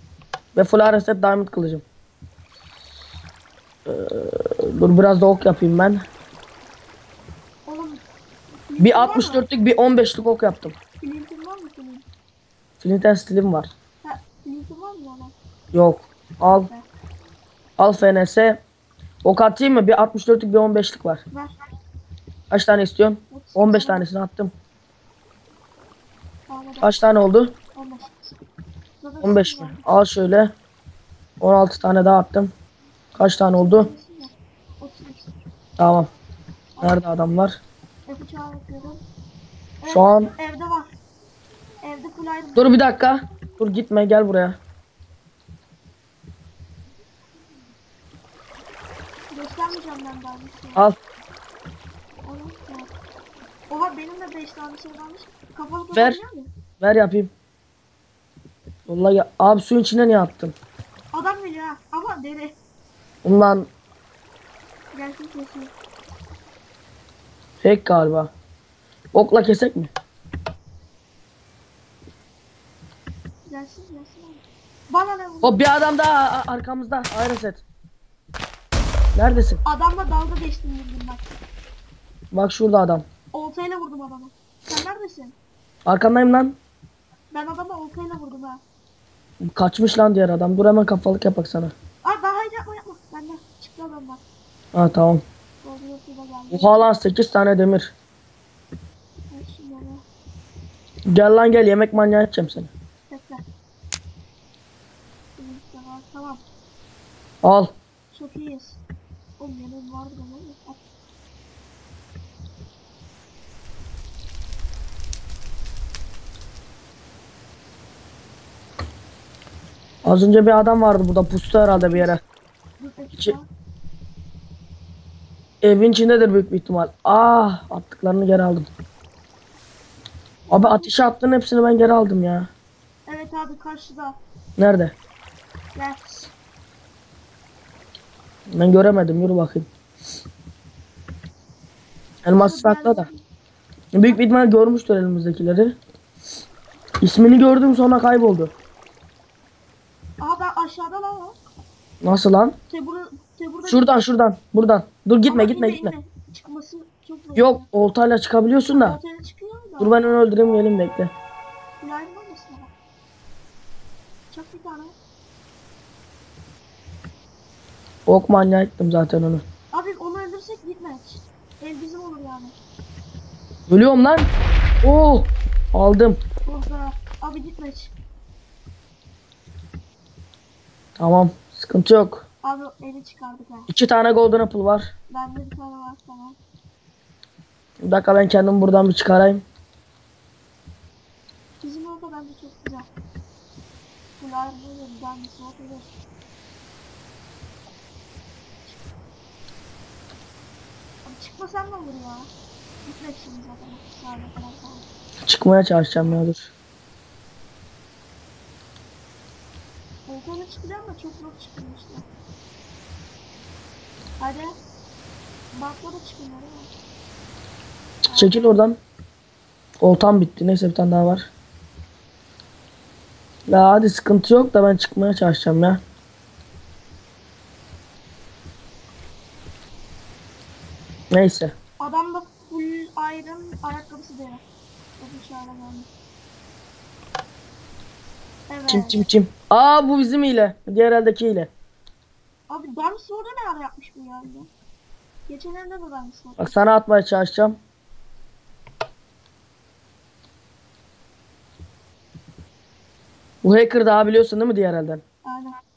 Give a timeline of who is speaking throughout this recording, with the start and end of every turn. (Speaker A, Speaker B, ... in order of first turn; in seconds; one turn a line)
Speaker A: 0.6-1.8
Speaker A: 3.9-6.0
Speaker B: 7.7-8.0
Speaker B: 8.7-9.4
Speaker A: 8.8-10.8
Speaker B: 11.0-12.1
Speaker A: 12.8-13.7
Speaker B: 14.0-15.3
Speaker A: 15.7-16.7
Speaker B: 16.5-16.9
Speaker A: 17.8-18.6
Speaker A: 19.2-21.2
Speaker A: 22.5-24.5
Speaker B: 23.3-24.1
Speaker B: 26.5-27.0
Speaker A: 26.8-27.5
Speaker B: 27.7-28.3
Speaker B: 29.0-29.9
Speaker A: 29.2-30.5
Speaker A: 31.4-32.5
Speaker A: 33.1-33.9
Speaker B: 33.5-35.3
Speaker A: 35.8-36.1
Speaker B: 36.8-37.1
Speaker A: 36.8-37.6
Speaker B: 38.1-39.0
Speaker B: 39.8-40.9
Speaker A: 39.9-40.3
Speaker B: 41.8-42.8
Speaker A: 42.6-44.6
Speaker B: 49.3-50.9
Speaker B: 52.2-52.9
Speaker B: 53.7-56.5
Speaker A: 55.9-56.2
Speaker A: 56.8-57.3
Speaker A: 58.9-60.5
Speaker B: 61.1-62.6
Speaker A: 63.2-63.7
Speaker B: 64.9-65.7
Speaker A: 67.6-68.3
Speaker A: 69.1-69.9
Speaker B: 73.5-75.6
Speaker A: 75.4-77.6
Speaker A: 79.2-79.6
Speaker B: 79.6-81.2
Speaker A: 82.3-83.0
Speaker B: 83.3-85.4
Speaker A: 85.9-86.6
Speaker B: 87.3-88.6
Speaker A: 89.4-91.7
Speaker B: 92.0-94.2
Speaker A: 94.7-95.2
Speaker B: 95.6-96.9
Speaker A: 96.5-97.9
Speaker B: 99.3-100.0
Speaker A: 101.1-102.7
Speaker B: 103.1-103.4
Speaker B: 105.4-106.4
Speaker A: 107.4-107.7
Speaker B: 108.1-108.8
Speaker B: 109.4-110.8
Speaker A: 120.0-122.2
Speaker B: 122.8-123.5
Speaker A: 125.6-128.7
Speaker B: 130.5-130.9
Speaker A: 130.5-132.5
Speaker B: 133.1-134.2
Speaker A: 134.6-134.9
Speaker B: 135.8-136.0
Speaker A: 138.5-139.7
Speaker A: 142.2-143.1
Speaker B: 142.3-143.2
Speaker A: 143.9-145.8
Speaker A: 147.0-148.5
Speaker B: 150.2-151.4
Speaker A: 152.0-152.6
Speaker B: 152.7-154.0
Speaker A: 153.7-155.9
Speaker B: 155.3-157.7
Speaker A: 157.4-159.0
Speaker B: 158.7-160.0
Speaker A: 159.8-161.1
Speaker B: 161.8-162.7
Speaker B: 164.3-164.9
Speaker A: 168.1-169.4
Speaker B: 169.7-172.6
Speaker A: 173.7-174.3
Speaker A: 174.8-176.2
Speaker B: 176.5-177.9
Speaker A: 181.0-182.2
Speaker B: 182.4-183.7
Speaker A: 183.7-184.9
Speaker B: 185.1-186.4
Speaker A: 187.8-189.4
Speaker B: 191.6-192.9
Speaker B: 194.2-195.9
Speaker B: 201.1-202.3
Speaker B: 202.9-204.8
Speaker A: 205.2-206.5
Speaker B: 210.1-212.1
Speaker B: 214.2-214.5
Speaker B: 215.5-216.7
Speaker B: 218.1-218.6
Speaker A: 218.1-218.8
Speaker A: 219.8-221.3
Speaker A: 223.5-225.8
Speaker A: 231.1-231.5
Speaker B: 231.8-234.4
Speaker B: 235.0-235.9
Speaker B: 238.5-239.1
Speaker A: 238.7-241.5
Speaker B: 242.5-244.5
Speaker B: 245.3-246.6
Speaker A: 246.4-247.6
Speaker A: 253.4-255.0
Speaker B: 255.2-255.6